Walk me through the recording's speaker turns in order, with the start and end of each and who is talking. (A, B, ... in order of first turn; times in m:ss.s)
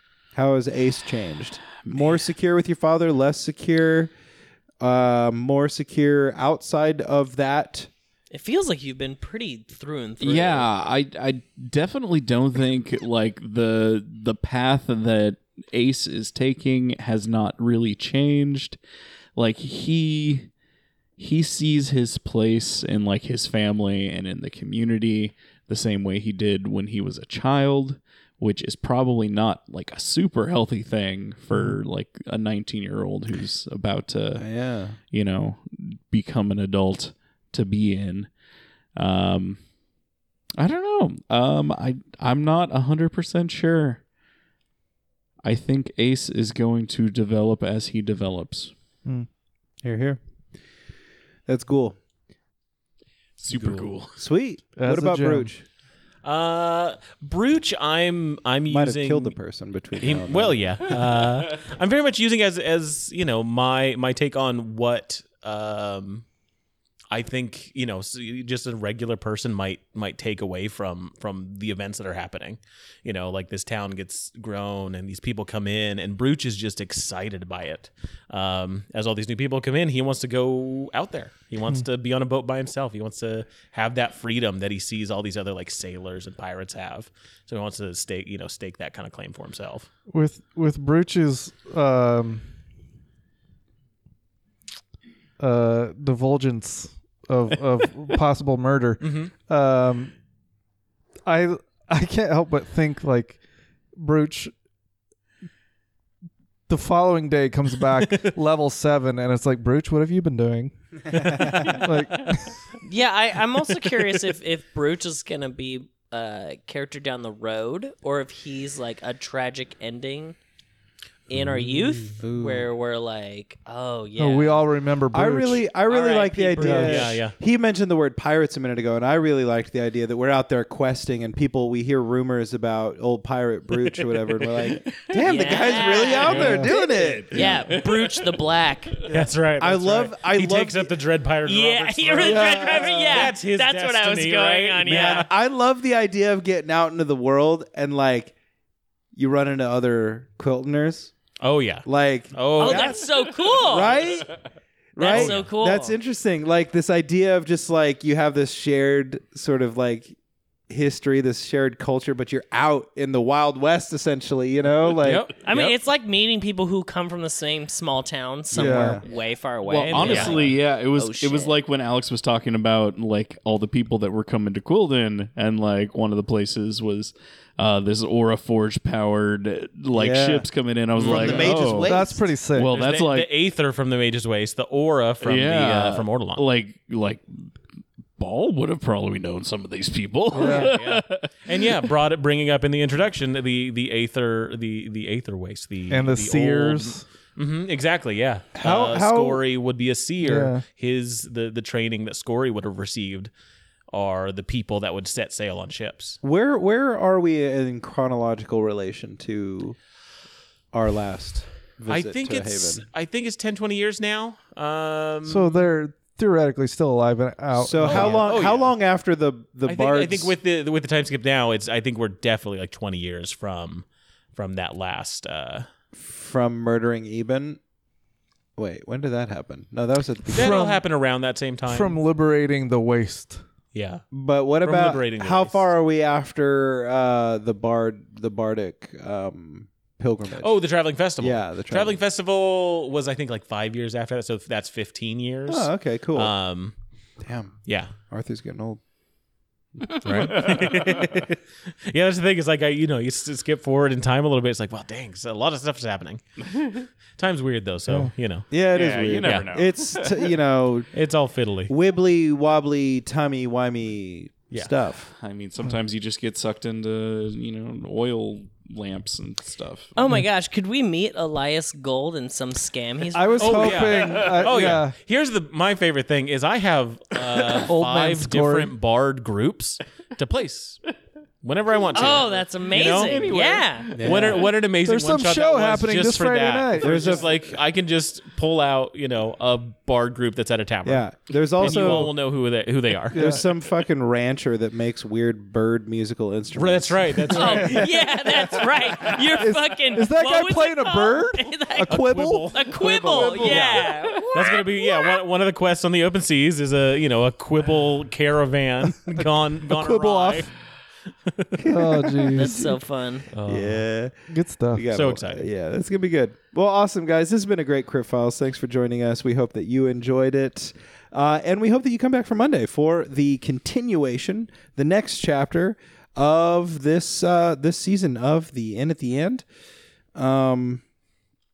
0:00.3-0:04.1 A
0:01.7-0:02.2 B
0:04.8-0:07.9 A
0:08.3-0:10.7 C
0:10.2-0:18.8 B
0:19.4-0:20.5 B
0:21.2-0:34.4 B
0:34.4-0:35.0 A
0:35.1-0:38.3 B
0:39.0-0:39.6 B
0:40.6-0:44.0 B
0:45.4-0:48.7 B
0:49.8-0:50.2 A
0:51.5-0:52.0 A
0:53.4-0:54.2 B
0:53.5-0:53.9 D
0:54.2-0:55.6 A
0:54.8-0:55.5 E
0:56.2-0:59.4 D
0:58.7-1:00.6 A
1:00.0-1:06.2 D
1:07.1-1:29.9 D
1:30.1-1:32.4 E
1:35.4-1:40.1 E
1:39.0-1:39.3 D
1:41.2-1:43.4 E
1:44.0-1:44.5 E
1:46.7-1:52.6 E
1:48.0-1:48.3 D
1:51.6-1:52.3 D
1:52.8-2:00.4 C
2:01.3-2:04.7 C
2:01.3-2:02.7 A
2:04.2-2:05.6 E
2:05.1-2:17.6 A
2:05.9-2:07.2 C
2:06.6-2:07.1 E
2:06.8-2:07.4 D
2:14.4-2:18.4 B
2:15.2-2:19.0 C
2:16.1-2:16.6 D
2:16.4-2:16.7 E
2:19.1-2:25.3 D
2:19.6-2:20.9 A
2:21.5-2:25.3 C
2:22.2-2:23.3 E
2:24.8-2:28.4 A
2:29.1-2:31.1 A
2:31.4-2:33.0 D
2:31.9-2:34.4 A
2:32.6-2:34.0 C
2:35.0-2:40.2 A
2:35.0-2:36.0 C
2:35.0-2:35.4 D
2:40.7-2:45.6 A
2:45.0-2:45.5 D
2:45.4-2:51.6 C
2:48.5-2:49.0 A
2:48.5-2:49.0 E
2:49.6-3:03.3 B
2:50.0-2:50.5 D
2:59.9-3:02.4 A
3:01.0-3:01.6 D
3:01.8-3:02.8 E
3:02.7-3:06.4 D
3:05.2-3:07.5 B
3:08.2-3:11.9 B
3:10.3-3:10.8 E
3:10.3-3:23.3 D
3:15.9-3:17.0 E
3:18.6-3:19.4 A
3:20.2-3:20.6 E
3:23.9-3:26.2 D
3:26.2-3:29.8 A
3:30.7-3:32.8 A
3:31.9-3:35.6 D
3:35.3-3:38.3 E
3:37.5-3:40.3 A
3:37.8-3:38.8 D
3:39.7-3:45.7 D
3:46.0-3:47.6 A
3:48.6-3:50.6 A
3:50.3-3:50.8 E
3:50.3-3:52.0 D
3:51.7-3:53.4 E
3:53.7-3:54.0 D
3:54.1-4:00.6 A
3:54.6-3:55.6 D
4:00.3-4:06.7 D
4:01.2-4:02.0 A
4:05.5-4:06.3 A
4:07.2-4:07.6 A
4:07.7-4:07.9 D
4:08.1-4:08.8 A
4:10.0-4:11.2 B
4:10.0-4:11.3 D
4:11.9-4:18.5 D
4:18.5-4:20.9 A
4:18.7-4:20.3 B
4:19.2-4:19.5 D
4:20.9-4:21.7 D
4:21.7-4:25.1 A
4:25.1-4:29.9 B
4:30.0-4:33.6 C
4:33.1-4:35.0 E
4:33.4-4:40.8 D
4:37.6-4:38.7 E
4:41.4-4:43.3 D
4:42.0-4:44.0 C
4:42.2-4:44.4 B
4:44.0-4:44.5 A
4:44.0-4:53.4 D
4:44.8-4:47.2 E
4:46.8-4:47.6 A
4:50.8-4:52.1 A
4:51.6-4:52.1 E
4:53.1-4:53.5 E
4:53.1-4:57.8 A
4:56.5-4:58.0 D
4:57.3-5:04.6 C
4:57.4-4:57.7 E
4:59.4-5:02.6 E
5:01.8-5:10.5 D
5:03.1-5:03.6 E
5:03.2-5:04.6 B
5:09.2-5:10.5 E
5:11.3-5:11.7 D
5:11.6-5:12.4 A
5:11.6-5:12.8 E
5:12.3-5:13.3 C
5:13.3-5:13.9 D
5:13.4-5:29.4 A
5:14.3-5:14.8 E
5:14.9-5:15.5 D
5:30.1-5:30.8 A